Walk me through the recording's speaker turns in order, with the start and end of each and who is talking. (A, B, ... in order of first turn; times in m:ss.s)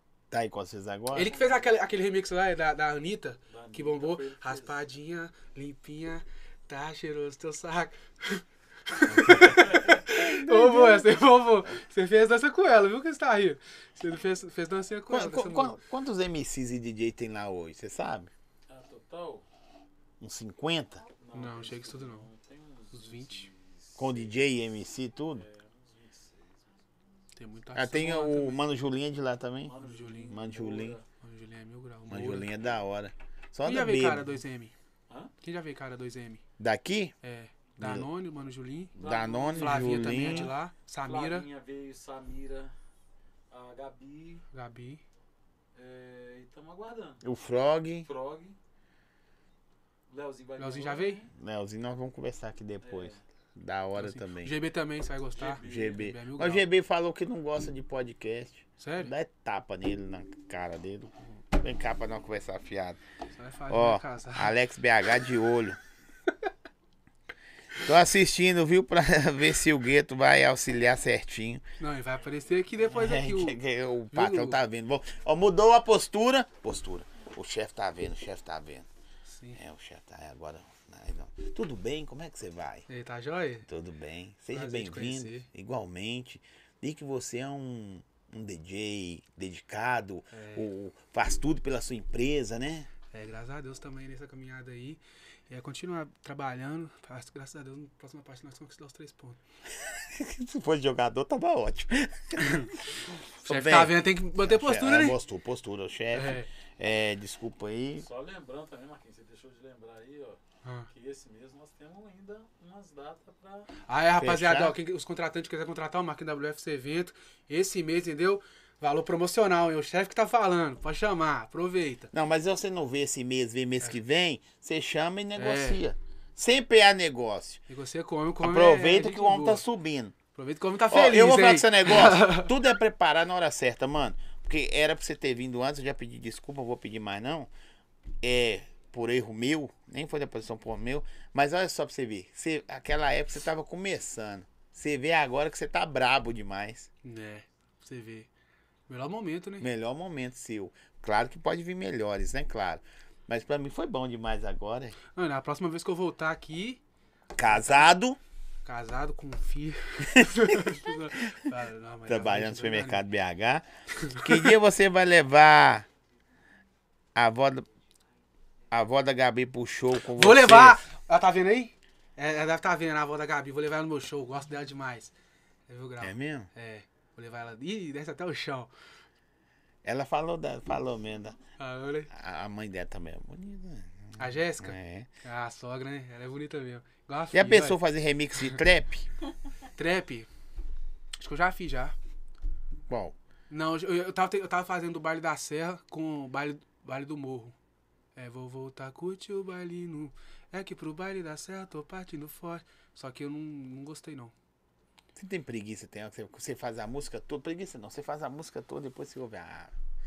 0:00.3-0:01.3 A
0:01.1-0:15.8 B
0:01.2-0:01.8 C
0:03.5-0:04.8 C
0:09.1-0:11.1 A
0:09.6-0:10.0 C
0:15.1-0:18.3 A
0:18.7-0:19.4 C
0:20.2-0:21.0 A
0:21.2-0:24.4 C
0:21.3-0:22.3 B
0:22.9-0:23.5 B
0:24.0-0:25.4 A
0:25.3-0:26.9 C
0:27.4-0:28.6 B
0:27.7-0:29.7 A
0:29.6-0:31.0 C
0:29.8-0:30.4 B
0:30.3-0:31.0 A
0:31.2-0:32.5 B
0:32.1-0:34.4 A
0:33.6-0:34.7 B
0:35.4-0:36.4 B
0:36.6-0:37.1 A
0:37.2-0:39.0 B
0:37.8-0:38.1 A
0:39.0-0:42.7 C
0:39.0-0:40.5 A
0:39.5-0:41.5 B
0:43.5-0:44.4 C
0:44.5-0:45.0 B
0:45.7-0:47.2 C
0:47.2-0:48.1 A
0:48.0-0:48.6 C
0:50.1-0:51.3 C
0:50.6-0:51.2 B
0:51.4-0:54.5 A
0:52.8-0:53.2 C
0:53.9-0:56.6 B
0:55.3-0:56.1 C
0:55.6-1:03.0 A
0:58.8-0:59.1 B
1:03.3-1:04.6 B
1:03.7-1:05.8 A
1:07.8-1:11.6 A
1:11.8-1:13.6 B
1:12.9-1:18.8 A
1:14.1-1:14.6 B
1:19.2-1:19.6 B
1:19.5-1:22.8 A
1:22.9-1:23.7 B
1:23.6-1:32.9 A
1:24.5-1:25.5 B
1:30.3-1:30.7 B
1:33.1-1:39.4 B
1:39.8-1:48.0 A
1:42.4-1:42.7 B
1:43.4-1:45.2 B
1:46.1-1:46.5 B
1:48.0-1:53.7 C
1:50.6-1:50.9 B
1:53.9-2:02.1 B
1:54.2-1:54.8 A
2:02.1-2:07.6 A
2:05.3-2:05.8 B
2:07.7-2:09.6 B
2:08.4-2:10.2 A
2:10.3-2:12.5 B
2:10.9-2:17.5 A
2:18.2-2:26.9 A
2:27.0-2:28.3 B
2:28.9-2:29.7 B
2:29.6-2:35.0 A
2:35.1-2:36.8 B
2:37.3-2:38.2 A
2:37.4-2:37.9 B
2:38.6-2:43.0 B
2:40.0-2:40.8 A
2:42.1-2:45.9 A
2:44.0-2:44.5 B
2:47.1-2:47.7 A
2:48.7-2:50.8 A
2:50.1-2:55.1 B
2:55.7-2:58.7 B
2:56.0-2:56.5 A
2:59.8-3:01.4 A
3:01.6-3:02.1 B
3:02.1-3:05.1 A
3:04.2-3:07.8 B
3:07.3-3:09.1 A
3:09.8-3:10.3 B
3:11.2-3:11.9 B
3:12.9-3:13.1 A
3:13.5-3:17.5 B
3:18.2-3:24.3 B
3:25.2-3:29.7 A